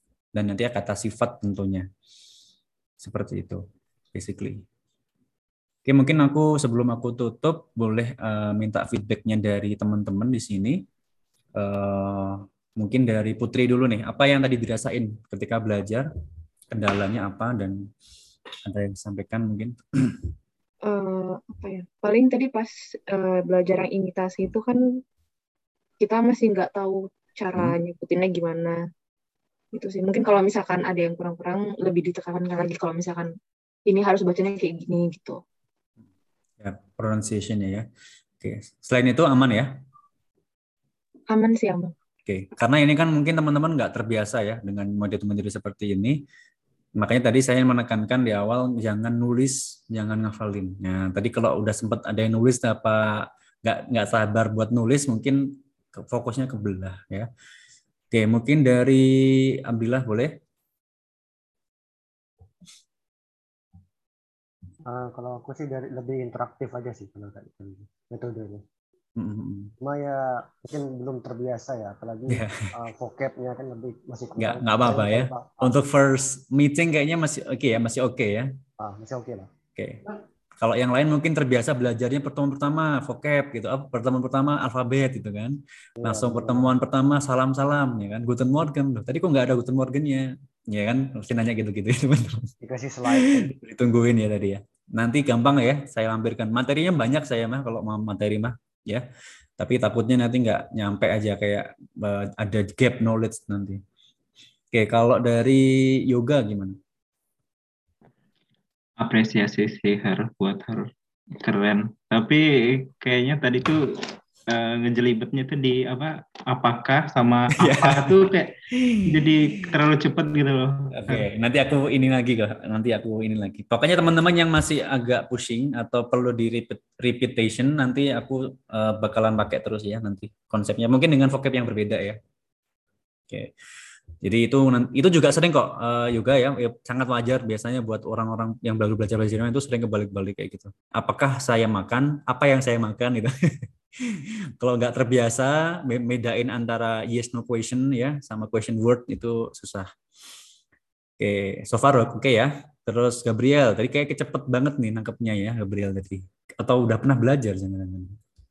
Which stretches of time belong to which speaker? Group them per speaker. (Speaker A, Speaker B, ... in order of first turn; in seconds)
Speaker A: 0.3-1.9, 3.0-3.6, 4.1-4.6, 5.9-10.8, 11.6-16.1, 16.7-17.8, 18.7-20.3, 36.6-37.9, 38.4-39.7, 42.3-46.2, 47.0-55.4, 56.0-57.3, 58.1-59.1, 59.7-60.3, 69.2-69.7, 74.4-78.5, 79.8-80.0, 80.6-92.5, 93.2-99.0, 99.6-103.8, 104.7-106.8, 117.6-118.2, 118.7-119.3, 120.9-132.2, 134.2-143.3, 144.1-149.9, 151.2-158.2
Speaker B: 20.9-24.8, 26.0-28.8, 29.7-33.3, 33.9-35.4, 41.3-41.9
Speaker C: 64.9-68.6, 69.8-75.8, 78.8-79.5, 86.0-86.7, 92.6-93.5
Speaker D: 109.0-110.9, 111.4-113.8, 114.5-118.5, 119.1-121.3